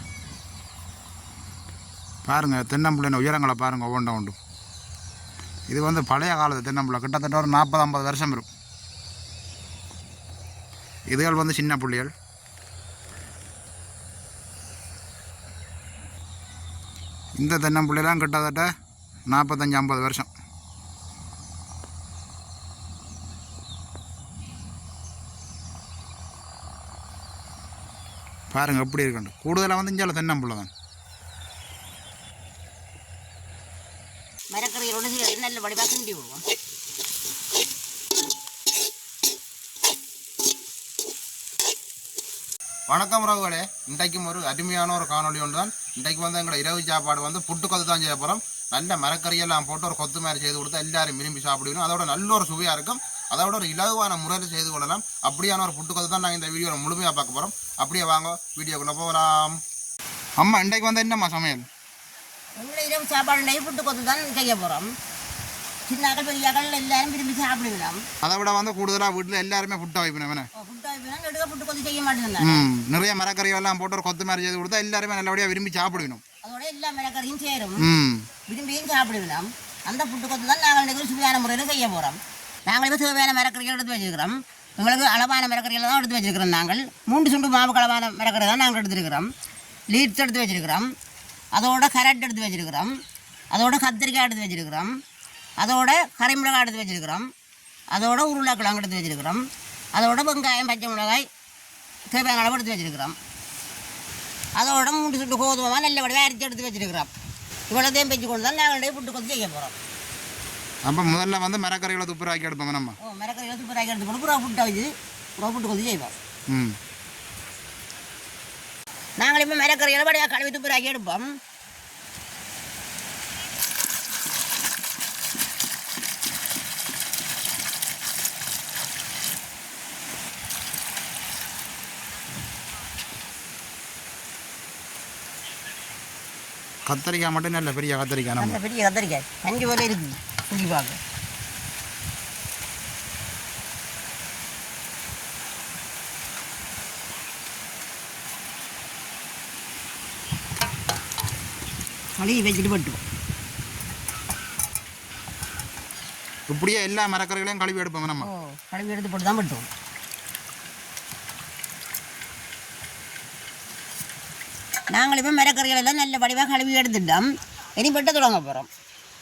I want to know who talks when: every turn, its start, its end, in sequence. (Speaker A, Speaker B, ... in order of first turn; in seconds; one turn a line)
Speaker A: 2.2-4.4
Speaker A: 5.7-8.5
Speaker A: 11.1-12.1
Speaker A: 17.4-18.7
Speaker A: 19.3-20.3
Speaker A: 28.5-30.7
Speaker B: 34.5-36.4
Speaker A: 42.9-59.6
Speaker A: 60.4-61.6
Speaker B: 62.6-64.9
Speaker B: 65.9-68.0
Speaker A: 68.2-70.5
Speaker B: 70.6-72.7
Speaker A: 72.4-76.2
Speaker B: 76.4-77.8
Speaker A: 77.8-78.3
Speaker B: 78.5-89.3
Speaker B: 89.9-90.9
Speaker B: 91.5-92.9
Speaker B: 93.5-94.9
Speaker B: 95.6-97.3
Speaker B: 97.9-99.4
Speaker B: 100.0-101.3
Speaker B: 102.1-103.2
Speaker B: 104.6-107.1
Speaker B: 107.7-109.8
Speaker A: 110.8-113.0
Speaker B: 113.0-116.1
Speaker A: 116.5-116.8
Speaker B: 119.2-121.3
Speaker A: 136.9-138.6
Speaker B: 138.4-141.0
Speaker B: 152.2-153.0
Speaker A: 156.5-158.3
Speaker B: 158.1-159.7
Speaker B: 164.9-167.2
Speaker B: 167.8-168.7